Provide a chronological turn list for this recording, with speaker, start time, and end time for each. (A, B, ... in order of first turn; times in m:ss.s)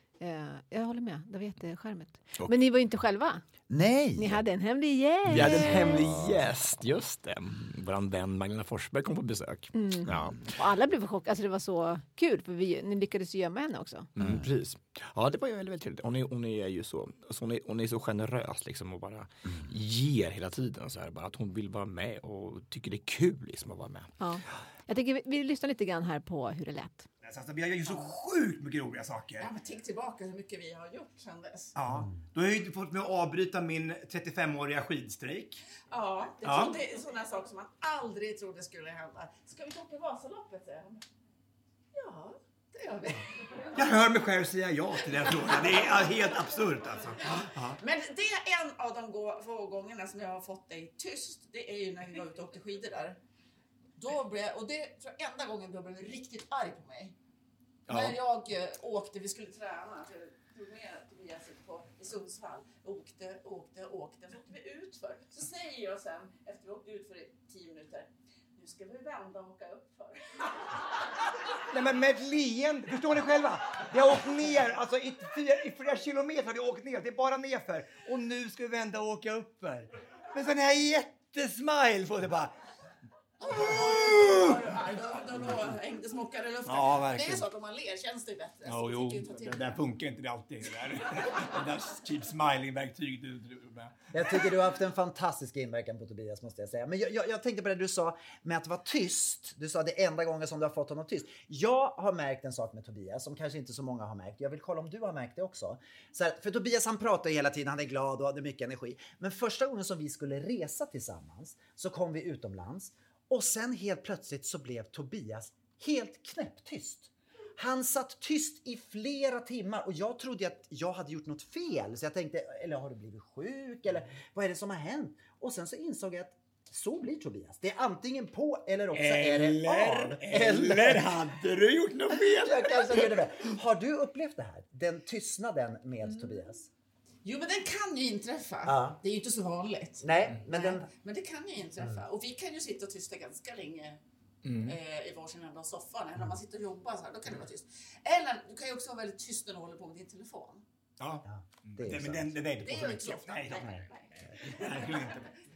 0:00.2-0:03.4 A
0:03.7-0:04.4 B
0:04.2-0:06.1 A
0:05.3-0:10.5 C
0:05.4-0:06.4 B
0:09.7-0:14.1 A
0:14.2-0:24.1 C
0:14.2-0:14.5 B
0:24.2-0:27.0 A
0:27.2-0:29.5 D
0:29.4-0:31.7 E
0:31.8-0:35.6 D
0:35.9-0:41.0 E
0:36.4-0:36.8 D
0:41.9-0:43.7 E
0:43.7-0:47.8 D
0:45.3-0:45.8 E
0:47.8-0:53.2 E
0:54.0-0:57.1 E
0:57.9-0:58.2 D
0:57.9-1:10.5 E
1:11.7-1:22.5 D
1:23.4-1:29.8 E
1:23.6-1:24.6 D
1:26.6-1:27.5 D
1:28.6-1:33.9 D
1:34.1-2:11.2 F
2:08.9-2:13.2 D
2:12.2-2:16.7 F
2:17.2-2:24.0 E
2:18.6-2:19.0 F
2:20.0-2:20.9 F
2:24.4-2:24.8 D
2:24.6-2:30.6 E
2:31.0-2:33.8 D
2:31.3-2:32.3 F
2:32.6-2:34.0 E
2:34.5-2:35.3 D
2:34.6-2:34.9 E